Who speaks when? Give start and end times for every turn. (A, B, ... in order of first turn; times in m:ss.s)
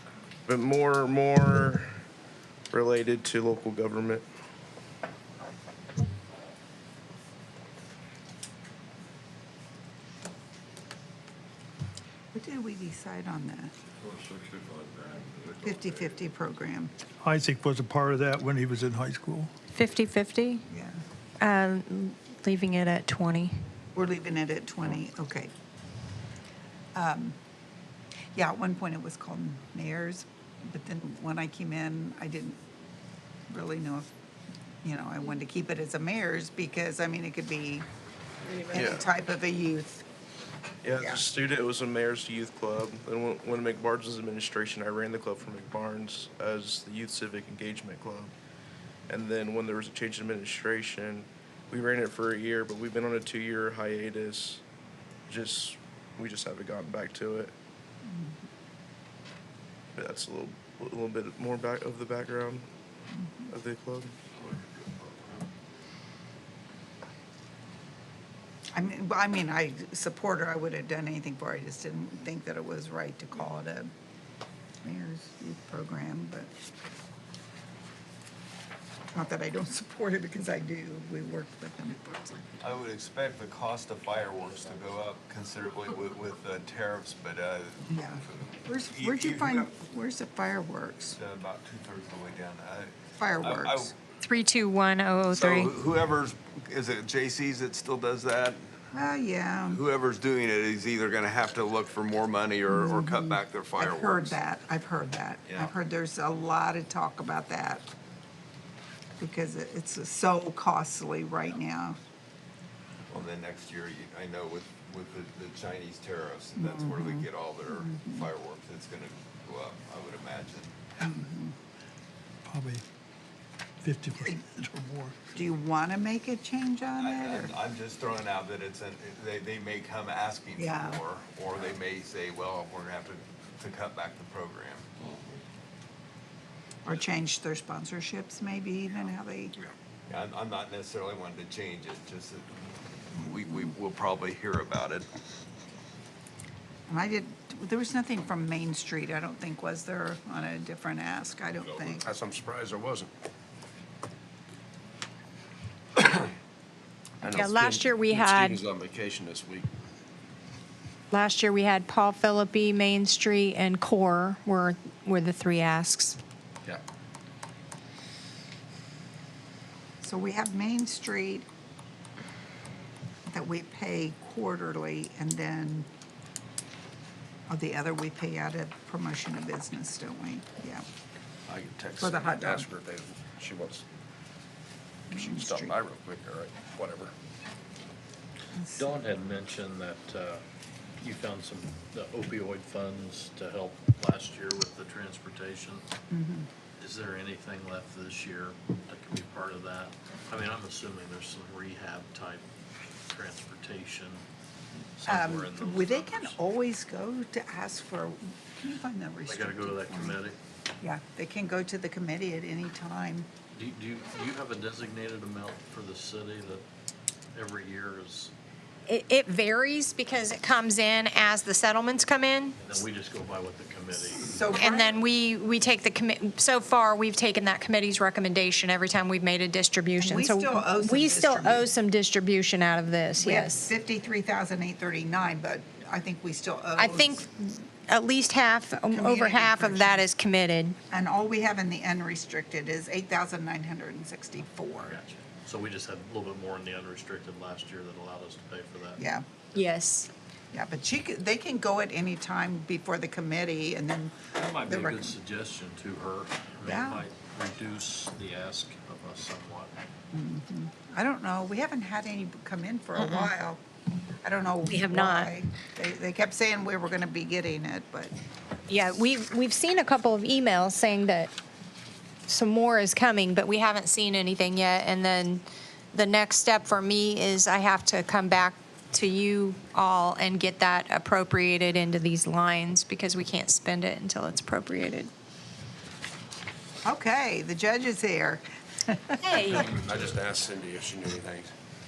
0:00.5-0:01.9 A
0:02.7-0:04.3 A
0:12.3-0:13.7 B
0:14.0-0:16.0 C
0:15.6-0:16.9 B
0:17.2-0:19.5 D
0:19.7-0:20.6 E
0:20.7-0:21.0 B
0:21.4-0:23.5 E
0:24.0-0:25.5 B
0:27.0-0:27.4 B
0:28.4-0:32.6 B
0:33.5-0:34.1 B
0:34.8-0:37.9 B
0:38.7-0:40.0 B
0:38.7-0:39.0 A
0:40.8-0:48.3 A
0:49.1-0:54.6 A
0:55.3-0:57.5 A
0:58.0-0:58.4 B
1:00.0-1:02.7 A
1:03.2-1:03.5 B
1:03.5-1:04.1 A
1:04.4-1:05.1 C
1:08.7-1:13.9 B
1:14.8-1:16.5 B
1:19.1-1:22.5 B
1:22.6-1:29.7 F
1:27.9-1:31.2 B
1:31.1-1:33.9 F
1:33.2-1:33.9 B
1:34.2-1:35.7 E
1:35.3-1:38.7 F
1:38.9-1:39.8 B
1:39.7-1:44.4 F
1:42.7-1:47.9 B
1:45.4-1:45.7 F
1:49.2-1:52.0 B
1:53.1-2:00.8 F
1:56.6-1:58.3 B
2:01.0-2:01.6 B
2:02.5-2:02.8 D
2:03.9-2:04.3 D
2:04.2-2:04.4 B
2:05.3-2:07.5 B
2:07.0-2:14.9 F
2:10.6-2:11.0 B
2:16.8-2:19.6 B
2:20.1-2:22.5 F
2:23.1-2:25.1 F
2:26.9-2:32.1 B
2:32.0-2:33.1 C
2:37.2-2:39.7 C
2:37.3-2:38.6 E
2:41.1-2:46.2 E
2:50.0-2:51.5 B
2:53.3-2:55.9 B
2:57.5-3:00.8 B
3:01.5-3:03.8 C
3:02.0-3:02.7 B
3:05.1-3:05.8 B
3:05.4-3:07.1 C
3:08.5-3:09.1 B
3:08.8-3:10.4 G
3:11.0-3:15.8 G
3:16.1-3:16.5 B
3:16.8-3:22.4 G
3:23.1-3:24.2 G
3:24.8-3:26.4 G
3:25.0-3:30.2 B
3:29.3-3:30.4 G
3:30.8-3:33.3 B
3:33.5-3:36.6 G
3:37.3-3:38.3 G
3:38.9-3:42.6 E
3:42.6-3:44.4 G
3:44.2-3:45.0 B
3:44.5-3:53.7 E
3:50.0-3:51.7 B
3:53.2-3:57.2 B
3:56.8-4:00.8 E
3:58.9-4:00.0 B
4:00.9-4:05.0 B
4:04.8-4:09.0 G
4:09.0-4:09.2 B
4:09.6-4:10.1 E
4:10.5-4:15.1 B
4:14.4-4:19.7 G
4:16.6-4:17.0 B
4:20.1-4:23.6 B
4:23.0-4:23.3 E
4:24.2-4:28.1 B
4:24.6-4:25.3 E
4:28.7-4:31.3 E
4:32.3-4:35.4 E
4:35.9-4:45.1 E
4:46.8-4:49.6 B
4:49.2-4:49.7 E
4:49.4-4:50.2 G
4:49.6-4:51.5 C